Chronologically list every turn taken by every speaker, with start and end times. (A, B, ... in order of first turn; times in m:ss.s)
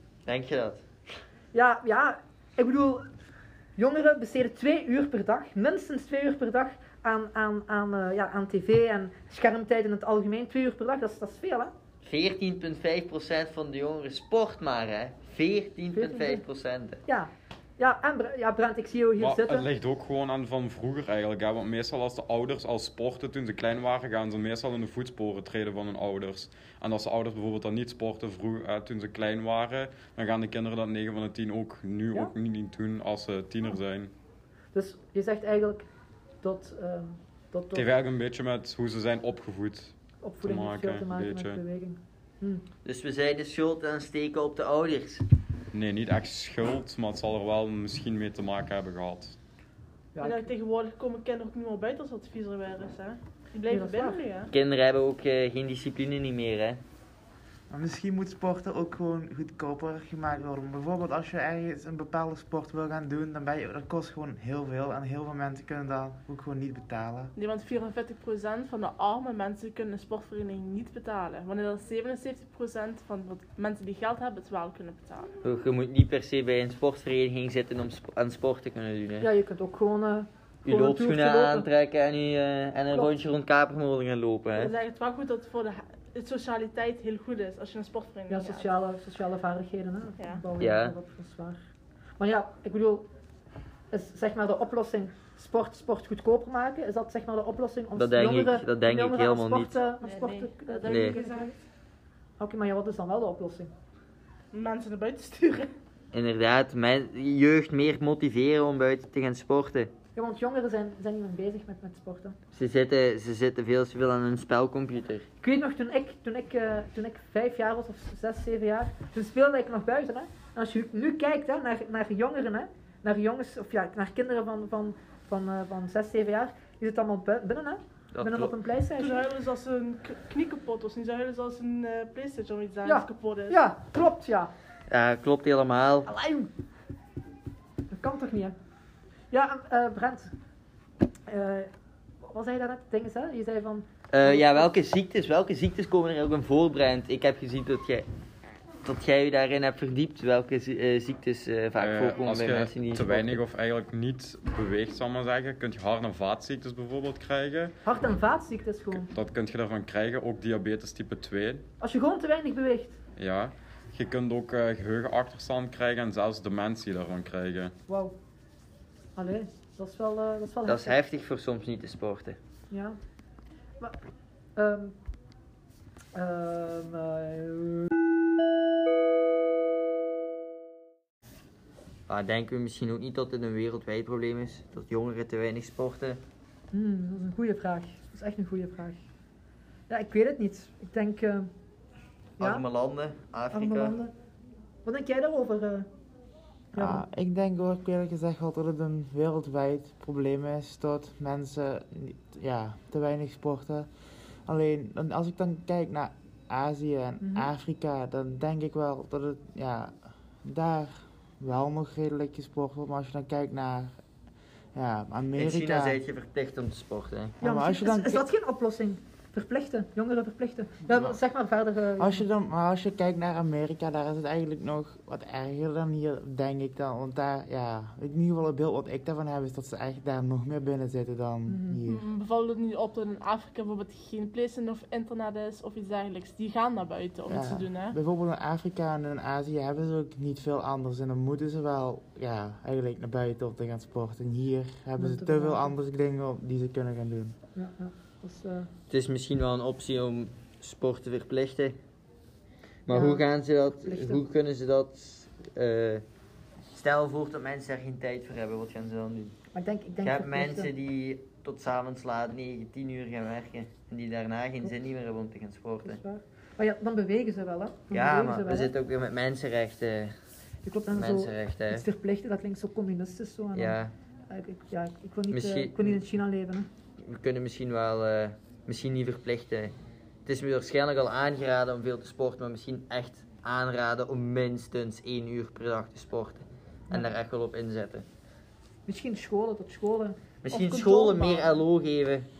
0:00.2-0:00.8 A
0:01.5-0:03.0 B
0:03.8-0:11.7 B
0:12.0-0:17.0 A
0:15.9-0:16.4 B
0:17.0-0:19.7 B
0:19.2-0:34.1 C
0:34.7-0:35.8 B
0:36.4-0:37.9 B
0:37.7-0:41.6 C
0:40.2-0:42.6 B
0:42.8-0:45.2 A
0:45.7-0:49.4 C
0:50.1-0:50.5 B
0:50.2-0:54.5 D
0:53.7-0:54.2 B
0:54.5-0:56.8 A
0:57.7-1:07.3 E
1:07.4-1:15.3 D
1:15.4-1:19.3 A
1:19.2-1:21.7 B
1:20.6-1:24.7 A
1:24.5-1:28.8 D
1:28.3-1:31.6 B
1:30.2-1:30.4 D
1:30.6-1:30.9 A
1:32.2-1:33.0 B
1:33.9-1:41.5 B
1:37.9-1:39.8 A
1:40.0-1:41.6 D
1:40.9-1:41.2 A
1:42.4-1:43.7 B
1:44.5-1:45.7 D
1:46.1-1:49.9 A
1:50.1-1:52.3 B
1:52.5-1:55.2 A
1:55.4-2:09.3 B
2:08.1-2:08.5 A
2:08.8-2:13.6 D
2:12.8-2:14.5 B
2:14.9-2:16.1 A
2:16.1-2:16.5 B
2:17.9-2:18.5 B
2:19.3-2:20.3 B
2:21.3-2:21.7 B
2:22.2-2:24.7 B
2:24.1-2:28.0 A
2:28.8-2:33.4 A
2:31.8-2:37.7 C
2:37.8-2:39.1 B
2:38.9-2:41.6 C
2:41.8-2:43.0 B
2:43.2-2:47.7 C
2:47.9-2:48.1 B
2:49.1-2:51.0 B
2:50.6-2:52.4 A
2:52.7-2:53.0 B
2:54.6-2:54.9 B
2:56.1-2:57.9 B
3:02.1-3:06.2 A
3:06.7-3:09.0 B
3:09.9-3:11.5 B
3:12.4-3:14.0 A
3:12.4-3:12.6 B
3:13.5-3:14.1 B
3:14.8-3:15.9 B
3:16.7-3:17.0 B
3:16.8-3:23.9 E
3:24.5-3:33.9 E
3:27.2-3:27.5 B
3:34.7-3:36.0 E
3:35.3-3:37.4 A
3:37.4-3:38.2 E
3:37.4-3:42.2 B
3:40.9-3:41.1 E
3:42.0-3:52.0 E
3:51.5-3:51.8 B
3:51.9-3:58.0 D
3:57.3-4:07.4 E
4:05.0-4:05.7 B
4:07.5-4:08.7 B
4:08.9-4:11.8 A
4:12.9-4:16.0 A
4:12.9-4:14.2 B
4:16.7-4:19.3 A
4:19.5-4:20.7 B
4:20.0-4:26.0 A
4:25.8-4:28.7 B
4:27.9-4:30.1 A
4:30.6-4:36.7 B
4:30.9-4:31.8 A
4:33.5-4:33.9 A
4:35.3-4:36.0 A
4:37.0-4:39.7 A
4:40.2-4:48.0 A
4:48.8-4:51.6 B
4:50.4-4:52.3 A